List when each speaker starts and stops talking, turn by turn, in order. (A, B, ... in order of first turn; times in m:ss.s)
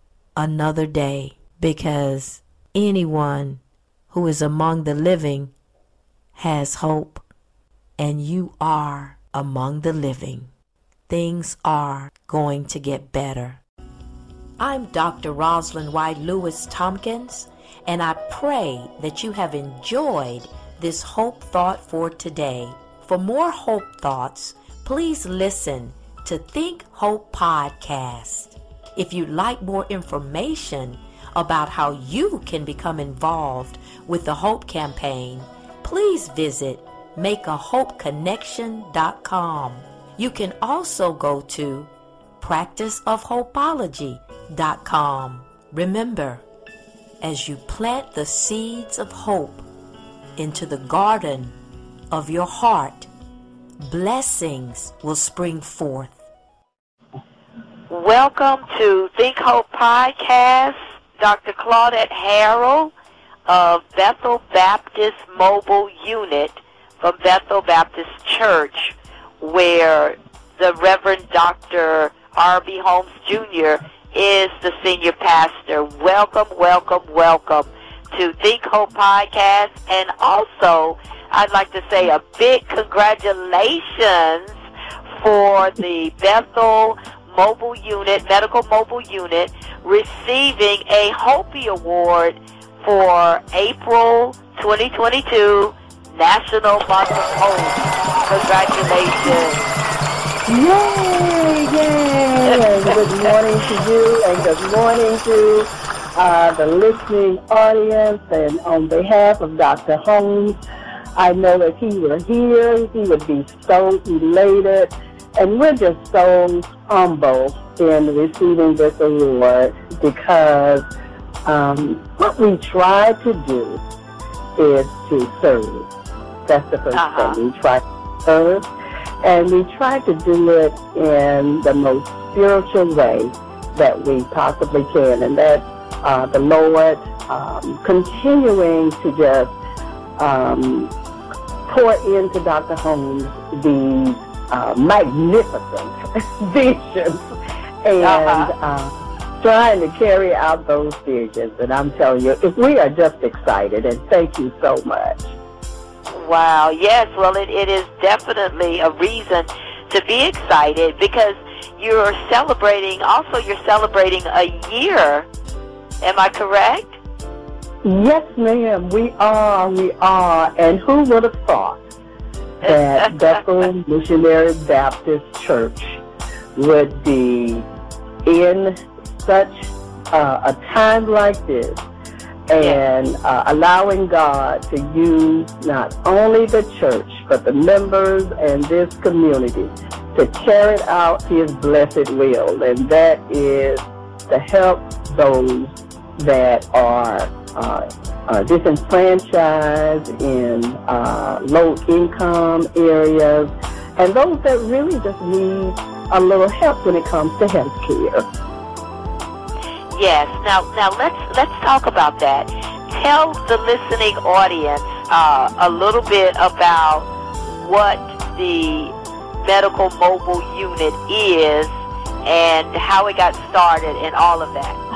0:00.4-0:05.5 A
0:06.3-0:07.2 A
0:08.0-0:10.5 A
0:11.1-0:13.6 A
0:14.6-0:46.4 A
0:47.2-0:49.6 A
0:50.4-0:51.5 A
0:52.1-0:53.1 A
0:53.8-0:56.2 A
0:57.9-1:02.9 B
1:03.5-1:24.5 B
1:25.2-1:39.8 B
1:40.5-1:50.6 C
1:51.2-2:00.8 C
2:01.4-2:03.8 C
2:04.6-2:05.9 C
2:06.5-2:08.6 C
2:06.9-2:07.4 B
2:09.2-2:19.5 C
2:20.2-2:20.9 C
2:21.7-2:27.3 C
2:27.8-2:35.3 C
2:28.0-2:28.5 B
2:36.1-2:45.3 B
2:46.0-2:47.0 B
2:47.8-2:51.8 C
2:52.6-2:53.4 B
2:52.6-2:56.0 C
2:56.6-2:57.6 C
2:58.2-3:01.8 C
3:02.5-3:28.2 C
3:29.9-3:41.7 B
3:42.2-3:44.8 B